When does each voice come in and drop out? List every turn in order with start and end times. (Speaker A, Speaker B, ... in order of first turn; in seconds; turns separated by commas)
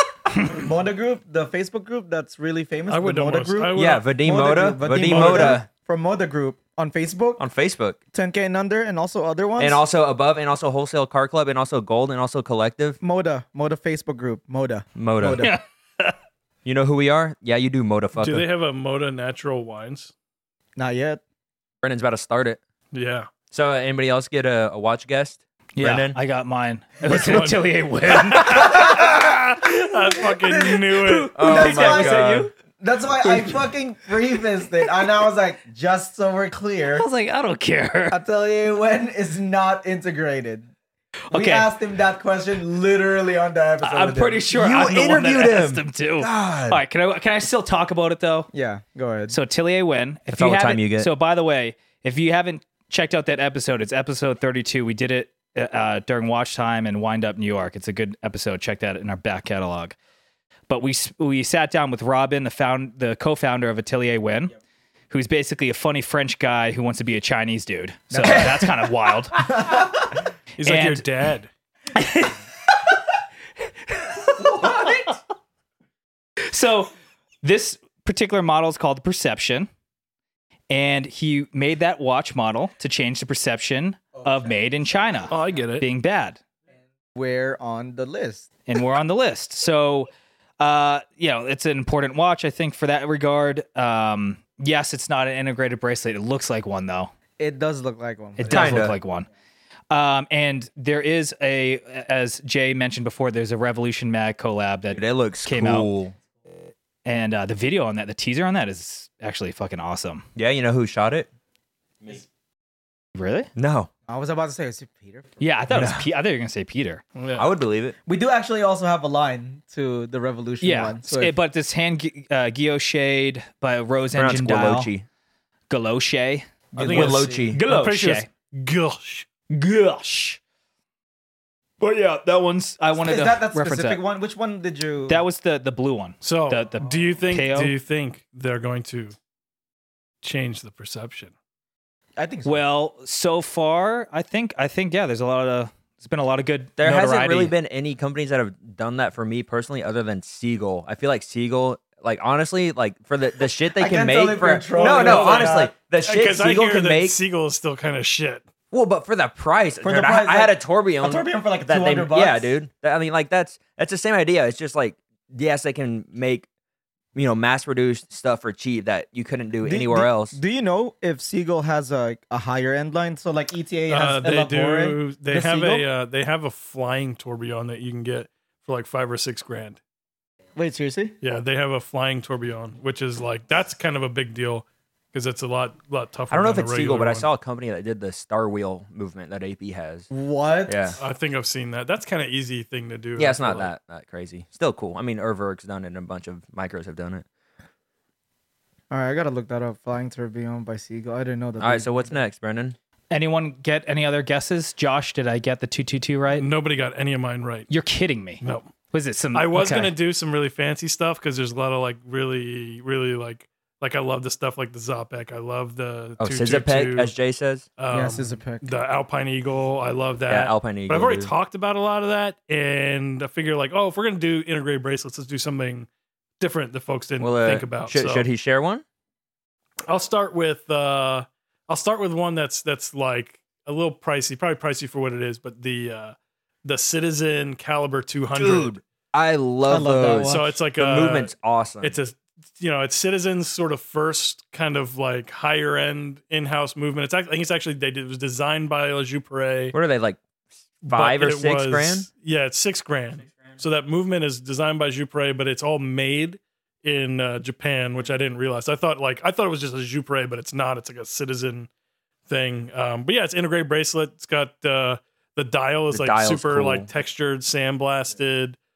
Speaker A: 0.4-7.4, Speaker B: 2.9-4.1, Speaker C: 3.7-5.7, Speaker B: 4.9-5.6, Speaker C: 7.4-8.0, Speaker A: 8.1-9.8, Speaker C: 9.6-13.0, Speaker A: 13.0-15.5, Speaker C: 15.0-15.5, Speaker D: 15.4-16.1, Speaker C: 16.6-18.4, Speaker B: 18.2-20.1, Speaker A: 20.8-21.2, Speaker C: 21.8-22.6, Speaker B: 22.9-23.3, Speaker C: 23.5-26.2, Speaker D: 25.8-29.3, Speaker B: 27.0-27.7, Speaker B: 28.3-31.3, Speaker A: 30.5-30.8, Speaker D: 30.9-32.5, Speaker C: 31.4-32.5, Speaker A: 31.4-37.1, Speaker D: 33.2-33.6, Speaker D: 36.9-38.2, Speaker A: 38.1-40.7, Speaker D: 41.3-41.7, Speaker A: 41.3-44.5, Speaker D: 43.8-48.5, Speaker C: 44.5-46.8, Speaker A: 48.5-49.4, Speaker D: 49.3-60.0, Speaker C: 50.3-51.1, Speaker D: 60.7-64.5, Speaker D: 65.1-69.8, Speaker A: 68.1-69.9, Speaker B: 70.6-71.5, Speaker D: 70.6-71.1, Speaker D: 71.9-72.4, Speaker D: 73.9-75.1, Speaker A: 74.4-75.1, Speaker D: 76.5-76.9, Speaker D: 77.4-79.7, Speaker D: 80.7-86.4, Speaker B: 85.3-85.8, Speaker A: 87.2-88.5, Speaker D: 88.7-90.1, Speaker D: 90.6-97.1, Speaker A: 97.4-98.9, Speaker D: 98.4-99.3, Speaker C: 98.5-99.0, Speaker D: 99.9-105.9, Speaker C: 105.0-106.2, Speaker D: 107.0-110.2, Speaker C: 110.3-111.3, Speaker D: 113.2-113.5, Speaker C: 113.6-113.9, Speaker A: 114.1-115.5, Speaker D: 115.4-117.0, Speaker C: 115.7-116.0, Speaker B: 117.2-117.5, Speaker C: 117.4-118.0, Speaker A: 118.0-121.4, Speaker D: 120.6-124.9, Speaker C: 124.1-125.1, Speaker D: 125.7-126.5, Speaker A: 126.7-127.5, Speaker C: 126.8-127.6, Speaker B: 126.8-129.3, Speaker D: 127.3-128.3, Speaker D: 129.5-130.4, Speaker D: 131.8-134.0, Speaker A: 133.0-135.2, Speaker D: 135.1-137.8, Speaker B: 136.2-139.2, Speaker B: 140.2-141.3, Speaker A: 142.2-142.6, Speaker D: 142.4-147.6, Speaker C: 146.8-157.2, Speaker A: 153.8-155.7, Speaker B: 154.9-155.5, Speaker B: 156.0-158.4, Speaker C: 158.7-166.5, Speaker A: 159.8-162.6, Speaker C: 167.2-170.4, Speaker A: 169.6-175.9, Speaker B: 173.9-179.8, Speaker A: 180.6-181.2, Speaker B: 181.2-187.3, Speaker C: 186.3-190.1, Speaker A: 190.1-191.0, Speaker C: 190.7-191.0, Speaker B: 191.0-193.7, Speaker C: 193.2-197.3, Speaker A: 198.9-202.1, Speaker C: 201.6-202.8, Speaker D: 203.1-206.5, Speaker B: 206.3-207.7, Speaker D: 207.7-209.9, Speaker B: 208.4-208.7, Speaker B: 209.3-217.1, Speaker C: 216.2-217.7, Speaker B: 217.8-225.9, Speaker A: 217.9-218.8, Speaker C: 220.3-221.3, Speaker B: 226.4-228.3, Speaker C: 227.2-228.8, Speaker B: 229.9-238.8, Speaker C: 238.3-242.0, Speaker A: 239.7-240.5, Speaker B: 240.2-249.8, Speaker C: 249.7-250.2, Speaker C: 250.9-252.1, Speaker B: 250.9-261.7, Speaker B: 262.3-268.6, Speaker C: 265.9-266.9